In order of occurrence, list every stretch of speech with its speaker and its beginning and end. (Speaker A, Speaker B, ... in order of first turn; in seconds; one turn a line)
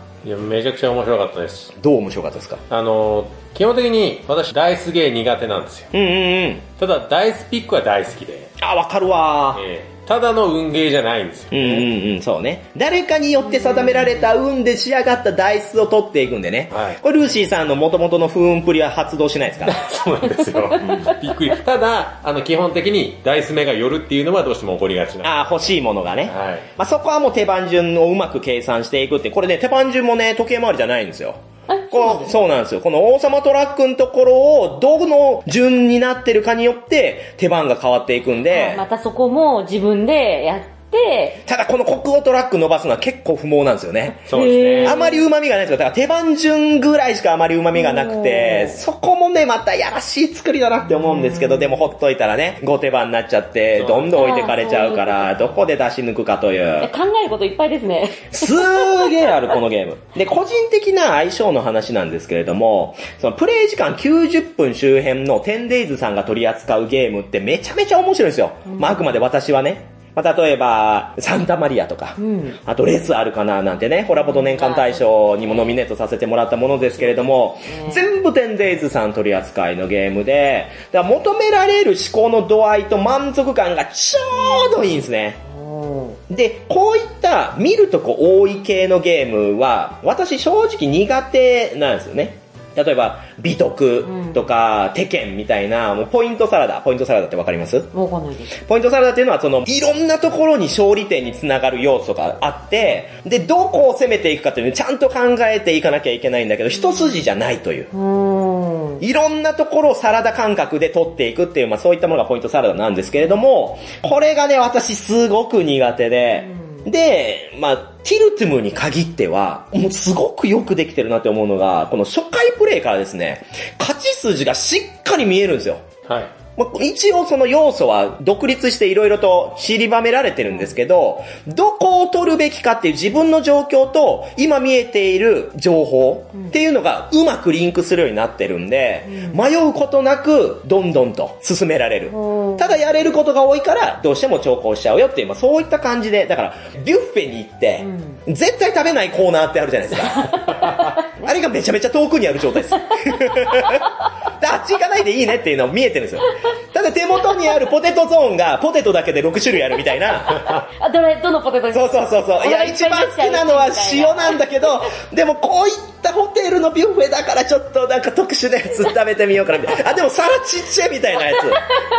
Speaker A: 0.2-1.7
Speaker B: 1.8-2.6
Speaker A: 2.7-5.9
Speaker B: 5.9-6.7
Speaker A: 6.8-8.5
Speaker B: 8.6-9.6
Speaker A: 9.6-11.9
Speaker B: 11.5-19.8
Speaker C: 13.4-14.3
Speaker A: 16.7-17.0
Speaker A: 19.6-25.3
Speaker B: 25.2-31.4
Speaker A: 26.3-26.7
Speaker C: 31.7-32.3
Speaker B: 31.9-38.8
Speaker C: 38.5-41.4
Speaker B: 41.5-44.3
Speaker A: 44.3-45.0
Speaker C: 44.3-45.2
Speaker B: 44.8-56.9
Speaker C: 47.8-48.8
Speaker C: 50.9-51.8
Speaker A: 53.8-54.2
Speaker C: 54.2-55.5
Speaker C: 56.8-59.3
Speaker B: 58.3-85.4
Speaker C: 68.7-69.1
Speaker C: 72.2-72.6
Speaker C: 74.2-75.7
Speaker C: 76.9-78.1
Speaker C: 84.4-84.9
Speaker C: 85.5-86.2
Speaker B: 86.3-97.9
Speaker C: 94.1-94.5
Speaker C: 97.9-98.5
Speaker B: 98.5-107.9
Speaker C: 107.9-109.0
Speaker B: 109.0-125.8
Speaker A: 126.1-126.3
Speaker B: 126.6-150.5
Speaker C: 139.1-139.4
Speaker C: 142.1-142.8
Speaker C: 147.8-148.2
Speaker C: 150.2-151.3
Speaker B: 151.2-160.6
Speaker C: 153.5-153.7
Speaker C: 160.7-164.4
Speaker B: 161.7-171.7